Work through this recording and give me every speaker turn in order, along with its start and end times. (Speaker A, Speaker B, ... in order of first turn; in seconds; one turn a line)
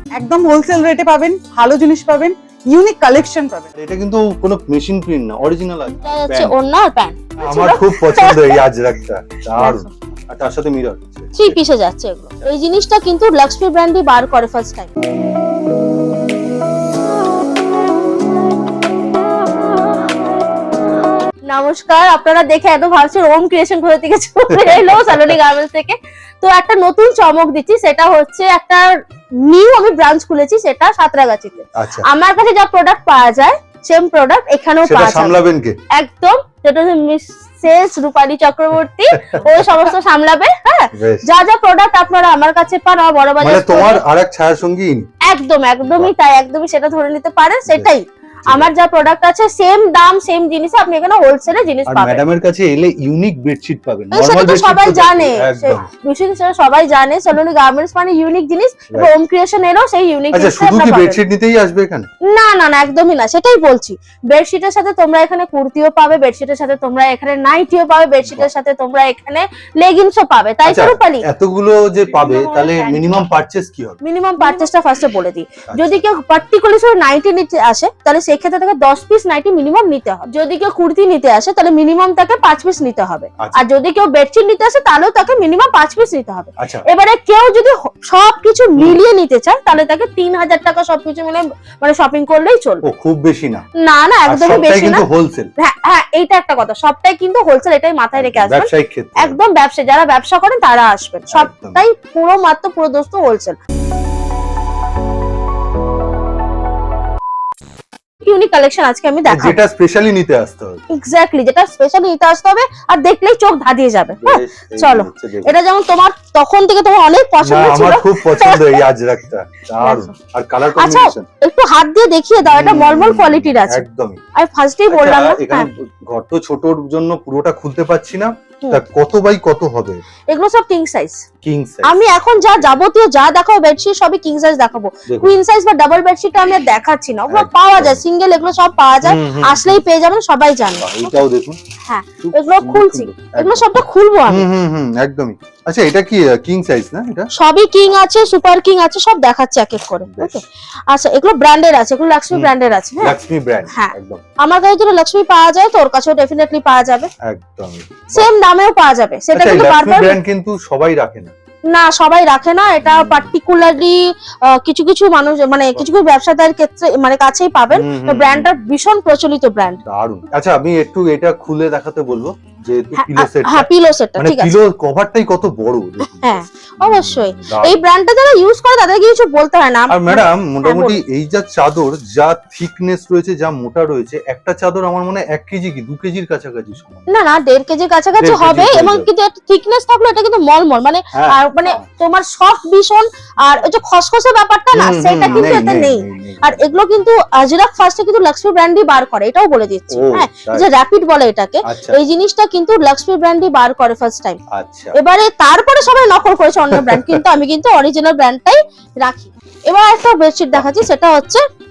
Speaker A: 0.2-3.7
Speaker B: 3.7-6.5
Speaker C: 5.9-8.6
Speaker B: 7.4-11.6
Speaker C: 11.3-14.9
Speaker C: 21.5-28.9
Speaker B: 24.5-25.3
Speaker C: 29.4-35.4
Speaker B: 31.8-32.0
Speaker B: 34.8-35.8
Speaker C: 36.0-44.0
Speaker B: 39.1-39.9
Speaker B: 40.9-41.2
Speaker B: 43.4-45.1
Speaker C: 45.2-52.2
Speaker B: 45.8-46.1
Speaker B: 51.9-55.9
Speaker C: 54.1-61.2
Speaker B: 60.3-62.1
Speaker C: 62.3-71.2
Speaker B: 68.2-68.5
Speaker B: 70.6-74.0
Speaker A: 72.1-73.2
Speaker C: 74.0-92.8
Speaker B: 75.7-76.0
Speaker B: 86.6-86.8
Speaker B: 88.8-89.0
Speaker B: 92.8-93.6
Speaker C: 93.8-95.0
Speaker B: 94.3-95.5
Speaker C: 95.6-103.6
Speaker B: 98.1-99.4
Speaker B: 101.3-101.8
Speaker C: 108.2-109.6
Speaker B: 109.2-110.8
Speaker C: 110.9-118.8
Speaker B: 114.2-115.5
Speaker B: 117.4-121.3
Speaker C: 119.8-120.1
Speaker C: 120.8-125.7
Speaker B: 122.5-124.2
Speaker B: 124.9-130.0
Speaker C: 130.3-131.2
Speaker B: 131.4-132.0
Speaker C: 131.8-141.1
Speaker B: 135.1-135.3
Speaker B: 137.3-138.0
Speaker B: 139.0-139.8
Speaker B: 140.8-141.6
Speaker C: 141.8-144.5
Speaker B: 142.2-143.7
Speaker B: 144.3-147.3
Speaker C: 147.3-153.1
Speaker B: 150.1-150.4
Speaker B: 152.3-154.2
Speaker C: 153.7-157.1
Speaker B: 157.3-158.3
Speaker C: 158.1-160.2
Speaker B: 159.3-161.3
Speaker C: 161.7-169.8
Speaker B: 162.8-163.3
Speaker B: 167.7-168.5
Speaker B: 169.8-177.8
Speaker C: 172.9-174.6
Speaker C: 176.0-181.0
Speaker B: 179.9-187.2
Speaker C: 187.1-204.4
Speaker B: 188.2-189.1
Speaker B: 191.1-191.8
Speaker B: 194.7-196.8
Speaker B: 199.9-200.7
Speaker B: 201.7-202.0
Speaker B: 204.5-204.9
Speaker C: 204.9-211.4
Speaker B: 206.7-207.2